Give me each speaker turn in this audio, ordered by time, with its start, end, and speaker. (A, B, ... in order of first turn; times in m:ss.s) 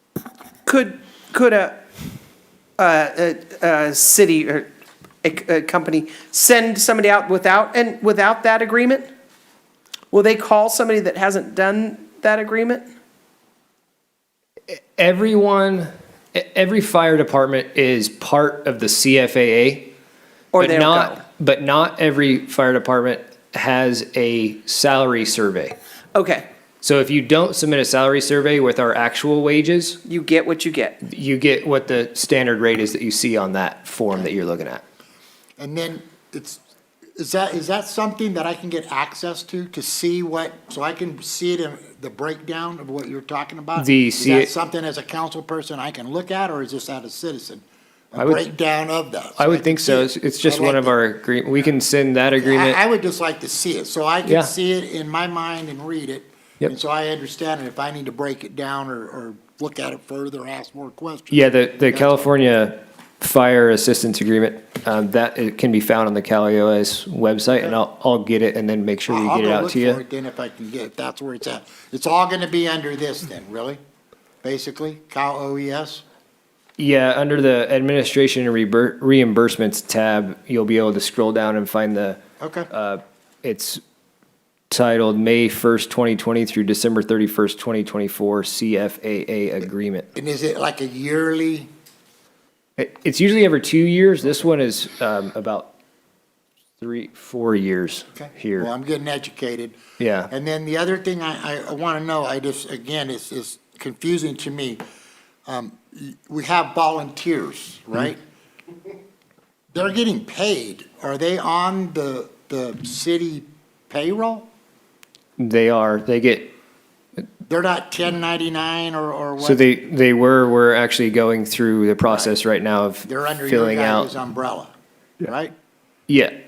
0:00.7-0:01.8 A
0:02.8-0:04.7 A
0:05.2-0:09.1 A
0:10.1-0:12.9 A
0:14.7-0:19.9 B
0:20.5-0:21.2 A
0:20.6-0:25.8 B
0:26.2-0:26.5 A
0:26.8-0:30.0 B
0:30.1-0:31.0 A
0:31.0-0:34.8 B
0:35.6-0:36.6 C
0:37.2-0:51.0 C
0:43.8-0:44.5 B
0:48.2-0:48.5 B
0:49.4-0:52.8 B
0:52.4-1:02.1 C
0:54.2-0:54.5 B
1:01.3-1:10.0 B
1:09.1-1:13.8 C
1:14.4-1:16.0 C
1:16.8-1:22.2 B
1:22.4-1:22.7 C
1:22.7-1:23.8 B
1:24.7-1:30.1 B
1:30.2-1:31.7 C
1:32.8-1:35.7 B
1:36.8-1:38.7 B
1:38.2-1:39.8 C
1:40.0-1:40.3 B
1:40.3-1:44.8 C
1:45.5-1:48.2 C
1:49.7-1:54.5 C
1:55.4-1:56.5 B
1:57.5-1:59.7 C
1:59.4-2:04.1 B
2:03.1-2:04.7 C
2:05.2-2:05.5 C
2:06.1-2:06.4 B